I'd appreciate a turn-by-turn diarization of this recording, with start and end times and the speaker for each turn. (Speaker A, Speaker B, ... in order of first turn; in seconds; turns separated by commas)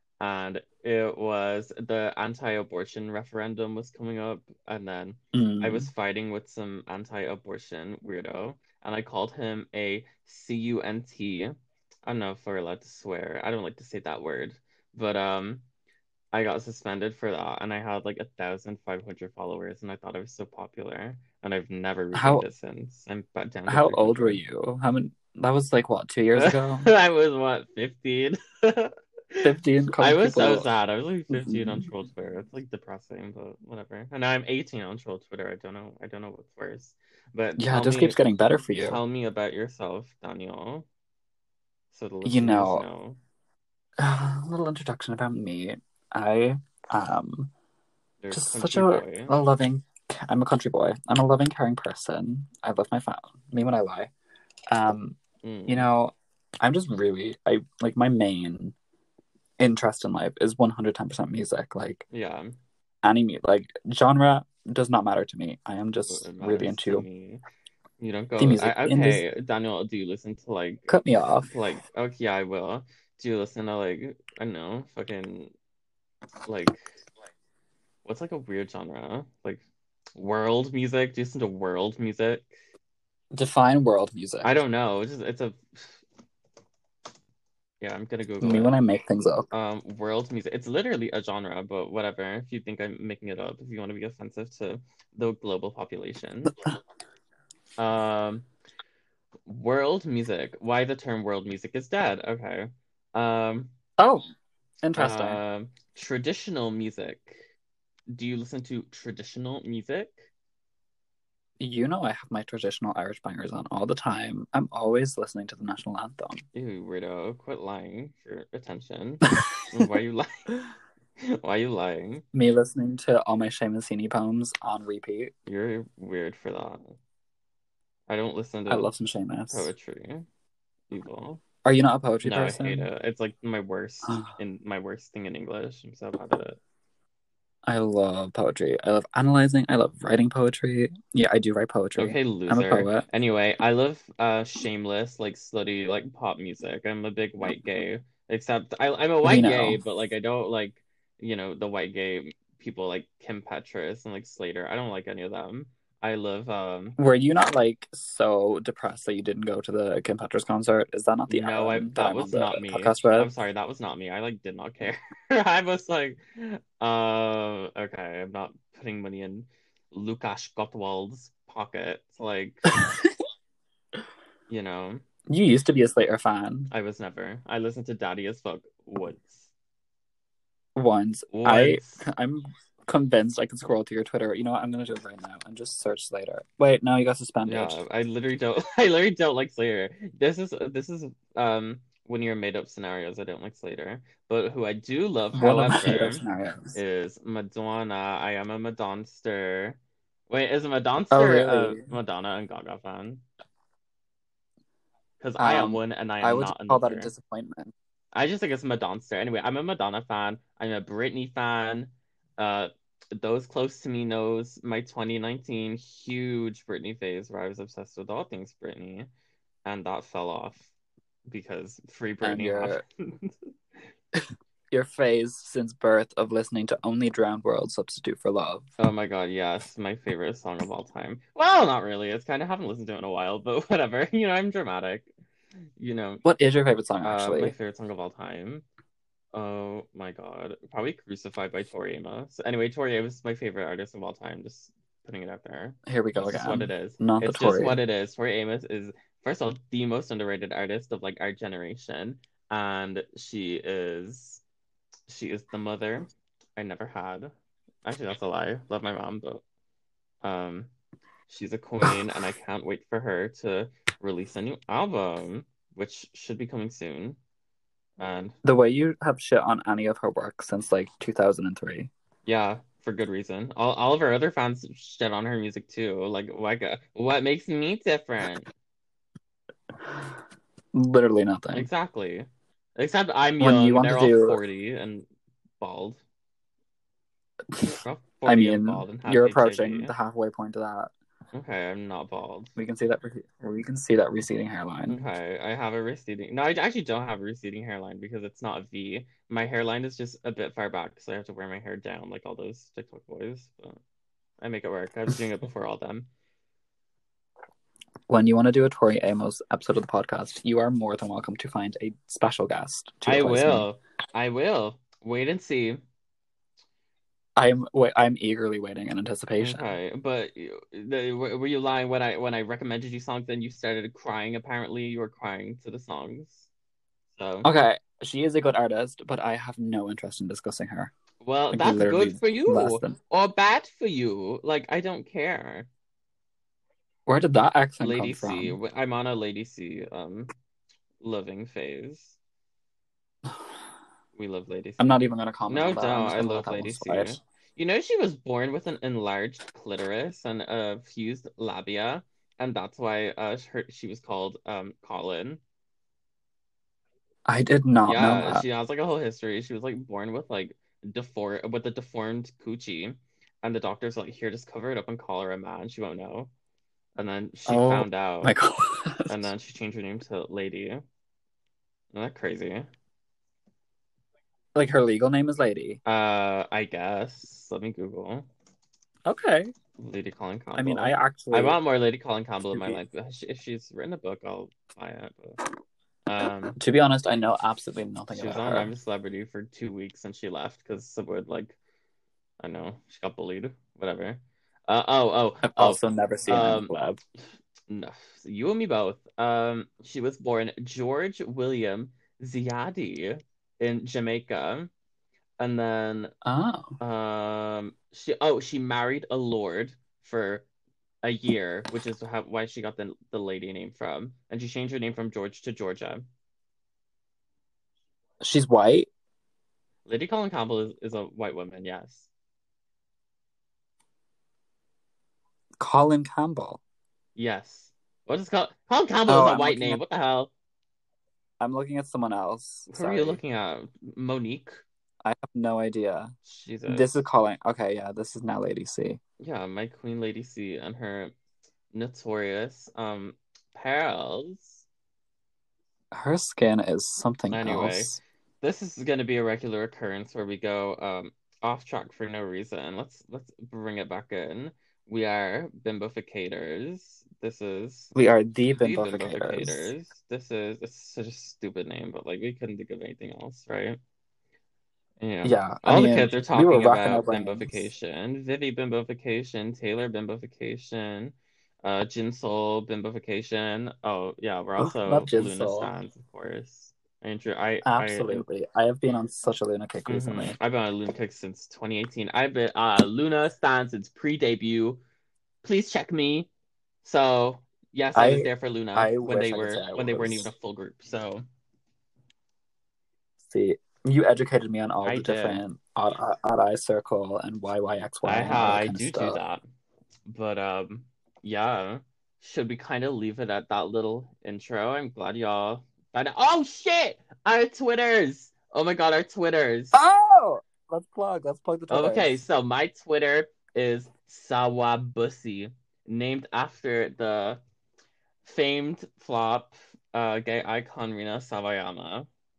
Speaker A: 0.2-11.5, Speaker B: 5.3-5.9, Speaker A: 12.1-15.6, Speaker A: 16.3-24.4, Speaker B: 22.1-22.5, Speaker B: 23.7-26.9, Speaker A: 26.3-38.2, Speaker B: 29.4-30.7, Speaker B: 31.3-31.9, Speaker B: 37.6-39.0, Speaker A: 38.8-40.9, Speaker A: 41.9-43.2, Speaker B: 42.2-42.9, Speaker B: 44.0-47.5, Speaker A: 48.2-49.3, Speaker B: 48.3-54.1, Speaker B: 54.7-58.8, Speaker A: 55.4-55.9, Speaker B: 59.6-62.0, Speaker A: 62.1-62.6, Speaker B: 63.0-67.1, Speaker A: 66.1-67.4, Speaker A: 68.0-75.5, Speaker B: 68.4-69.3, Speaker B: 70.9-71.5, Speaker A: 76.5-76.9, Speaker A: 78.0-79.6, Speaker A: 80.2-82.5, Speaker B: 83.3-84.5, Speaker A: 84.4-86.0, Speaker A: 87.8-88.8, Speaker B: 88.4-89.5, Speaker A: 89.5-96.5, Speaker A: 97.8-98.5, Speaker A: 99.5-103.7, Speaker B: 104.0-104.3, Speaker B: 104.8-105.4, Speaker A: 104.9-107.4, Speaker A: 108.1-110.3, Speaker B: 111.6-116.5, Speaker A: 116.5-120.7, Speaker A: 121.4-122.2, Speaker B: 122.3-125.3, Speaker A: 125.5-127.0, Speaker A: 128.1-128.9, Speaker B: 128.7-129.7, Speaker A: 129.5-130.3, Speaker A: 130.9-131.4, Speaker B: 131.7-132.9, Speaker A: 132.2-136.6, Speaker B: 134.0-134.3, Speaker B: 137.7-143.1, Speaker A: 142.0-157.0, Speaker B: 149.2-149.8, Speaker B: 157.0-163.3, Speaker A: 161.3-172.8, Speaker B: 172.8-173.1, Speaker A: 174.5-175.0, Speaker B: 175.3-176.7, Speaker A: 176.7-179.5, Speaker B: 180.8-187.8, Speaker A: 181.3-182.1, Speaker A: 187.4-203.2, Speaker B: 195.3-196.8, Speaker B: 201.1-201.9, Speaker A: 205.2-207.1, Speaker B: 205.4-207.7, Speaker A: 208.1-219.1, Speaker A: 219.7-220.7, Speaker A: 221.3-223.4, Speaker B: 222.2-222.8, Speaker B: 224.7-228.7, Speaker A: 228.8-235.1, Speaker A: 235.8-236.2, Speaker B: 236.2-237.6, Speaker A: 237.0-238.7, Speaker A: 239.3-254.4, Speaker B: 245.9-247.8, Speaker A: 255.1-257.3, Speaker A: 257.8-259.4, Speaker A: 260.2-260.7, Speaker A: 261.3-267.2, Speaker A: 268.0-268.4, Speaker B: 268.4-271.9, Speaker A: 272.2-278.5, Speaker B: 280.7-281.7, Speaker A: 281.5-285.1, Speaker B: 283.4-284.4, Speaker A: 285.6-286.0, Speaker B: 287.5-290.9, Speaker A: 287.6-289.9, Speaker A: 291.3-292.6, Speaker B: 292.6-295.1, Speaker A: 294.9-303.8, Speaker A: 304.4-306.1, Speaker B: 308.1-313.7, Speaker A: 313.0-315.8, Speaker B: 317.4-319.7, Speaker A: 319.4-326.5, Speaker A: 327.2-327.5, Speaker B: 327.4-330.9, Speaker A: 331.2-335.7, Speaker B: 331.5-333.0, Speaker B: 337.1-338.6, Speaker A: 337.8-340.3, Speaker A: 341.0-342.2, Speaker A: 344.1-344.9, Speaker B: 344.8-347.2, Speaker A: 345.5-355.4, Speaker B: 357.3-358.5, Speaker A: 357.9-366.3, Speaker A: 366.9-368.4, Speaker B: 367.5-369.3, Speaker A: 369.1-370.8, Speaker A: 371.9-372.7, Speaker B: 374.6-375.8, Speaker A: 375.9-378.3, Speaker B: 379.1-379.5, Speaker A: 379.8-385.4, Speaker B: 380.6-381.6, Speaker B: 382.5-382.8, Speaker A: 386.1-386.6, Speaker B: 386.6-388.7, Speaker A: 388.1-391.6, Speaker A: 392.4-396.8, Speaker B: 395.4-397.0, Speaker A: 397.7-404.7, Speaker A: 405.4-406.1, Speaker B: 406.2-406.8, Speaker A: 406.8-410.5, Speaker A: 411.0-416.1, Speaker B: 418.2-418.9, Speaker A: 419.9-422.1, Speaker B: 425.6-426.6, Speaker A: 427.2-430.3, Speaker B: 429.1-429.8, Speaker B: 431.4-433.2, Speaker A: 432.7-434.6, Speaker B: 435.0-436.1, Speaker A: 436.3-437.1, Speaker B: 436.7-439.0, Speaker A: 439.2-441.1, Speaker A: 441.7-444.6, Speaker B: 445.9-448.0, Speaker A: 447.3-457.9, Speaker B: 457.9-459.7, Speaker A: 458.5-463.8, Speaker A: 465.0-478.3, Speaker B: 465.2-467.7, Speaker B: 474.6-475.7, Speaker B: 477.6-480.4, Speaker A: 479.9-484.8, Speaker A: 485.4-486.3, Speaker A: 486.8-491.3, Speaker B: 487.9-490.3, Speaker B: 493.3-499.2, Speaker A: 494.8-495.4, Speaker A: 498.0-499.4, Speaker A: 500.1-509.8, Speaker B: 509.7-512.2, Speaker A: 511.7-517.4, Speaker A: 518.2-522.1